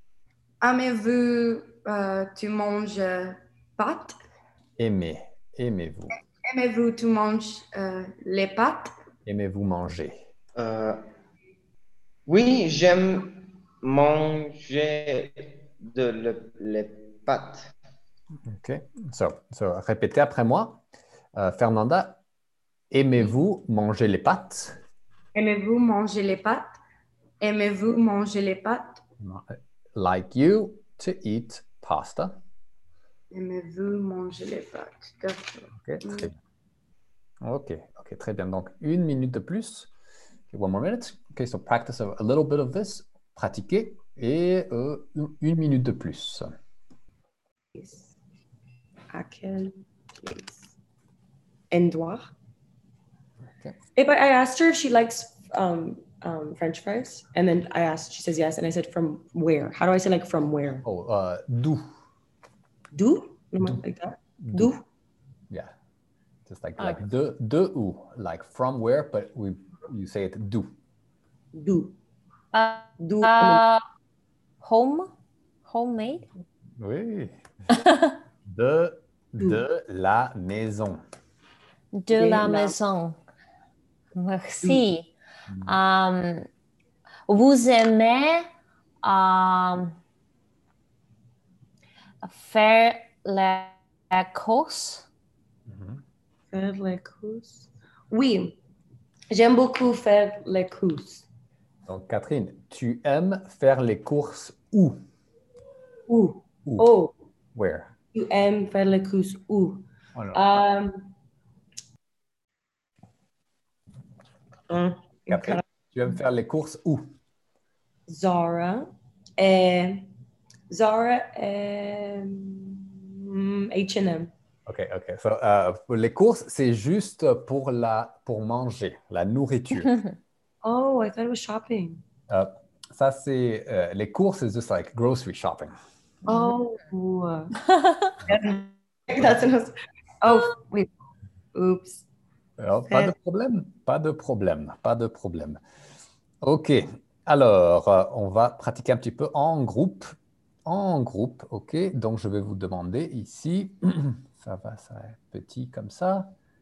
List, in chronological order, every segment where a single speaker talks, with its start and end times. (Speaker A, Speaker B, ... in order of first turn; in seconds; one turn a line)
Speaker A: 0.6-4.2
Speaker B: 4.8-6.2
Speaker A: 6.5-8.9
Speaker B: 9.2-10.2
Speaker C: 10.6-11.1
Speaker C: 12.3-17.7
Speaker B: 18.5-20.8
Speaker B: 21.4-22.2
Speaker B: 22.9-24.8
Speaker A: 25.4-26.8
Speaker A: 27.4-29.0
Speaker B: 29.2-32.4
Speaker A: 33.3-36.3
Speaker B: 35.7-36.4
Speaker B: 37.4-39.9
Speaker B: 40.5-46.5
Speaker D: 47.7-48.1
Speaker D: 49.1-50.7
Speaker D: 51.7-52.3
Speaker D: 54.0-60.9
Speaker B: 60.8-61.9
Speaker D: 62.9-64.8
Speaker B: 64.4-64.8
Speaker B: 66.5-70.7
Speaker D: 71.5-72.0
Speaker E: 72.5-73.8
Speaker D: 73.0-73.6
Speaker E: 74.6-75.1
Speaker E: 75.7-76.3
Speaker B: 76.8-77.4
Speaker E: 77.8-78.1
Speaker B: 78.5-81.0
Speaker E: 81.9-83.2
Speaker D: 82.1-82.8
Speaker E: 84.2-85.1
Speaker E: 85.7-86.5
Speaker E: 87.3-88.5
Speaker E: 89.0-90.0
Speaker E: 92.2-95.1
Speaker B: 95.7-96.0
Speaker D: 96.5-98.6
Speaker D: 99.3-101.3
Speaker B: 101.9-105.0
Speaker D: 106.1-107.1
Speaker B: 107.5-107.9
Speaker D: 108.1-111.1
Speaker B: 110.2-110.4
Speaker D: 114.7-115.6
Speaker B: 115.3-117.1
Speaker D: 118.1-120.1
Speaker D: 120.7-124.3
Speaker B: 124.7-130.0
Speaker D: 130.6-132.0
Speaker B: 132.3-135.8
Speaker D: 136.3-137.6
Speaker D: 138.3-140.9
Speaker D: 141.5-142.1
Speaker B: 142.6-145.6
Speaker B: 146.4-150.2
Speaker B: 150.7-156.3